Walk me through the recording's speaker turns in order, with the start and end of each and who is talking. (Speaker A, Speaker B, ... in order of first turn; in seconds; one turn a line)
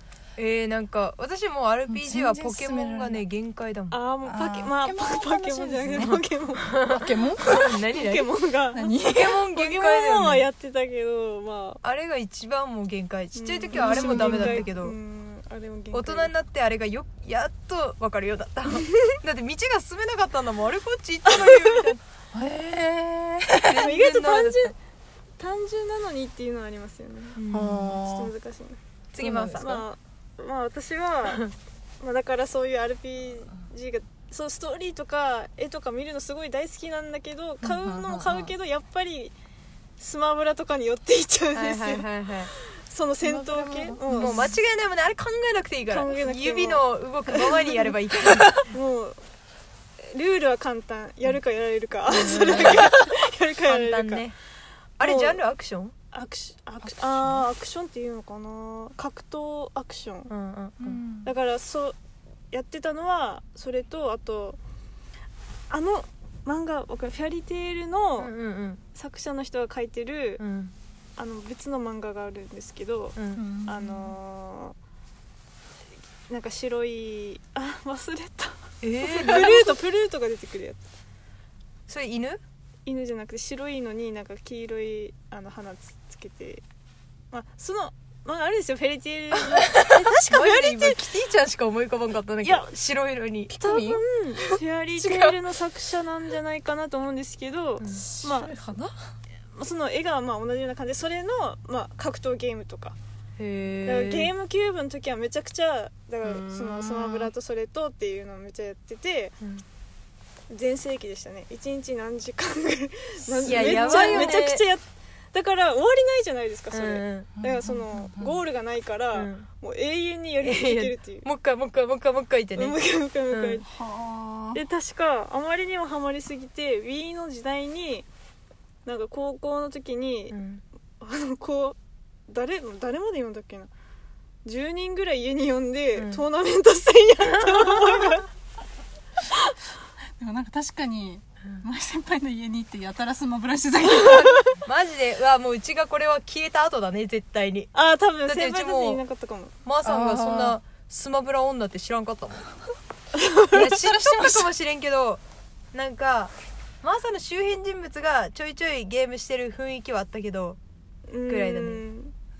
Speaker A: 0.3-4.0
Speaker B: 1.9-3.2
Speaker C: 3.9-9.0
Speaker B: 4.2-6.2
Speaker A: 5.9-8.3
Speaker B: 6.8-7.8
Speaker B: 8.7-9.4
Speaker A: 9.0-10.5
Speaker C: 9.5-11.8
Speaker A: 11.8-15.0
Speaker C: 13.3-16.3
Speaker B: 13.8-14.6
Speaker A: 15.9-22.0
Speaker C: 18.7-19.1
Speaker C: 21.3-21.9
Speaker B: 22.3-23.9
Speaker A: 23.6-24.7
Speaker C: 23.8-24.8
Speaker C: 25.4-27.4
Speaker A: 27.4-27.9
Speaker B: 27.5-28.3
Speaker C: 27.9-28.8
Speaker A: 29.1-29.7
Speaker B: 29.2-29.9
Speaker C: 29.6-39.3
Speaker B: 37.6-38.5
Speaker C: 40.0-44.5
Speaker A: 41.5-42.5
Speaker B: 43.2-44.5
Speaker A: 44.1-48.6
Speaker C: 45.9-47.9
Speaker C: 48.7-49.2
Speaker C: 50.0-54.3
Speaker A: 52.1-53.0
Speaker A: 53.6-54.3
Speaker A: 55.0-55.9
Speaker C: 55.0-55.4
Speaker C: 56.1-60.3
Speaker B: 56.8-57.5
Speaker A: 60.3-61.0
Speaker B: 60.8-61.3
Speaker C: 61.2-62.0
Speaker C: 62.5-64.6
Speaker C: 65.7-68.3
Speaker A: 68.2-68.8
Speaker C: 68.9-70.4
Speaker A: 70.4-70.7
Speaker C: 71.2-74.8
Speaker A: 73.2-73.4
Speaker B: 73.3-74.2
Speaker C: 76.3-80.8
Speaker A: 78.8-79.7
Speaker A: 81.9-82.4
Speaker C: 82.8-86.6
Speaker C: 87.3-91.1
Speaker A: 89.3-93.5
Speaker C: 92.4-92.7
Speaker B: 93.5-94.0
Speaker C: 93.6-98.5
Speaker A: 95.0-95.3
Speaker A: 97.8-98.1
Speaker B: 98.0-98.8
Speaker A: 98.6-98.9
Speaker C: 99.5-103.0
Speaker A: 103.4-104.3
Speaker C: 103.8-109.3
Speaker B: 106.2-107.3
Speaker C: 110.5-121.2
Speaker B: 113.4-114.3
Speaker A: 113.4-114.7
Speaker A: 116.7-117.3
Speaker B: 117.4-118.4
Speaker A: 119.1-119.5
Speaker A: 120.4-122.8
Speaker C: 122.5-123.7
Speaker A: 123.3-123.6
Speaker B: 123.7-124.6
Speaker C: 124.5-128.1
Speaker C: 128.8-130.4
Speaker A: 130.3-130.6
Speaker C: 131.0-133.7
Speaker C: 134.4-138.3
Speaker A: 135.9-136.2
Speaker B: 140.2-144.6
Speaker C: 144.0-144.4
Speaker A: 144.6-147.7
Speaker C: 147.7-149.5
Speaker A: 148.2-149.0
Speaker A: 149.6-152.5
Speaker B: 149.8-150.6
Speaker C: 153.2-153.7
Speaker A: 153.5-155.2
Speaker B: 153.8-154.4
Speaker A: 155.7-160.6
Speaker C: 161.1-162.1
Speaker A: 161.3-161.8